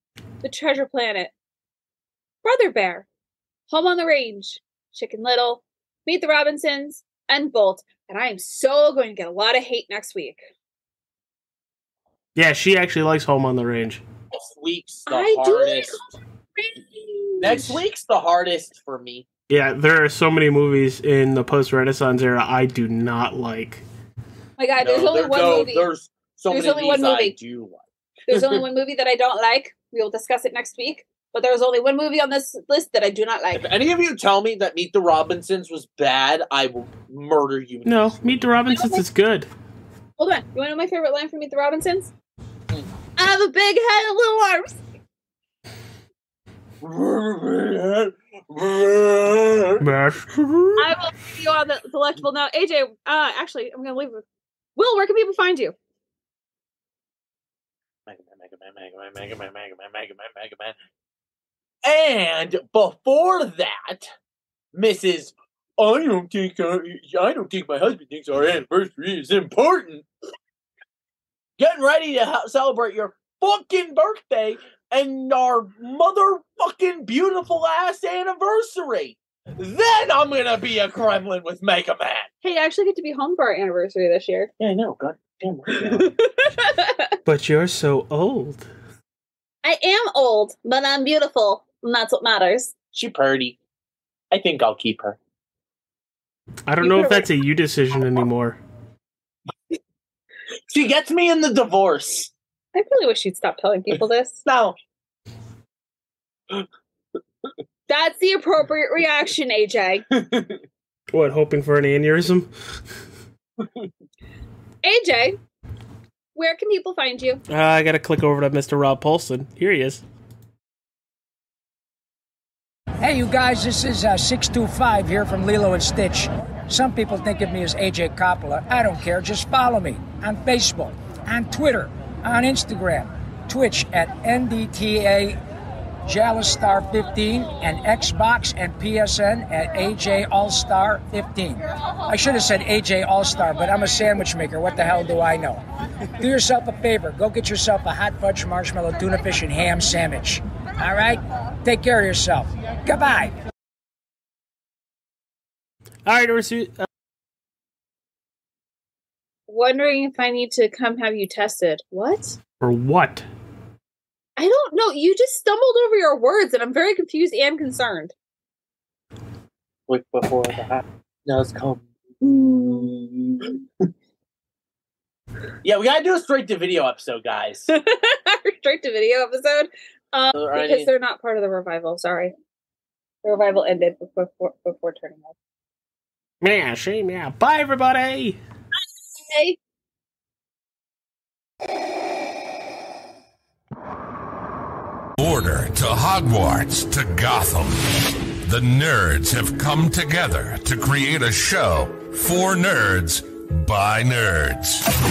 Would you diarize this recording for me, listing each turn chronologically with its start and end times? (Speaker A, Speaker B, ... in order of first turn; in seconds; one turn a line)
Speaker A: 0.4-1.3
Speaker A: 2.4-3.1
Speaker A: 3.7-10.4
Speaker B: 12.3-14.0
Speaker C: 14.3-16.0
Speaker A: 15.1-17.8
Speaker C: 17.4-19.2
Speaker B: 19.5-23.8
Speaker A: 24.6-25.9
Speaker C: 24.8-28.6
Speaker A: 26.5-27.3
Speaker A: 28.3-33.6
Speaker C: 33.5-38.1
Speaker B: 37.9-39.5
Speaker A: 38.7-39.0
Speaker A: 40.2-42.1
Speaker A: 43.2-44.8
Speaker C: 46.8-49.9
Speaker B: 49.8-50.9
Speaker A: 50.8-54.2
Speaker A: 54.8-55.7
Speaker C: 58.1-60.7
Speaker C: 61.8-64.1
Speaker C: 64.7-70.0
Speaker C: 71.6-82.3
Speaker A: 82.4-84.5
Speaker C: 84.6-86.1
Speaker A: 85.9-87.1
Speaker B: 87.2-88.7
Speaker A: 89.6-92.7
Speaker C: 92.9-93.6
Speaker C: 94.3-95.2
Speaker B: 96.7-98.6
Speaker A: 96.8-97.3
Speaker C: 100.7-102.3
Speaker A: 102.7-104.4
Speaker C: 104.4-104.8
Speaker A: 107.9-110.0
Speaker C: 110.1-110.6
Speaker B: 111.1-112.5
Speaker A: 114.8-115.4
Speaker A: 116.3-117.4
Speaker B: 117.5-120.0
Speaker D: 123.0-135.4
Speaker D: 136.1-145.6
Speaker D: 146.2-153.3
Speaker B: 156.0-156.8
Speaker A: 159.5-162.4
Speaker B: 162.6-163.2
Speaker A: 164.4-168.1
Speaker C: 169.9-173.6
Speaker A: 172.2-173.1
Speaker C: 175.6-177.7
Speaker A: 177.7-182.3
Speaker C: 180.3-180.9
Speaker A: 183.2-185.3
Speaker B: 186.4-188.4
Speaker A: 189.1-189.6
Speaker E: 195.2-197.9
Speaker E: 198.4-204.8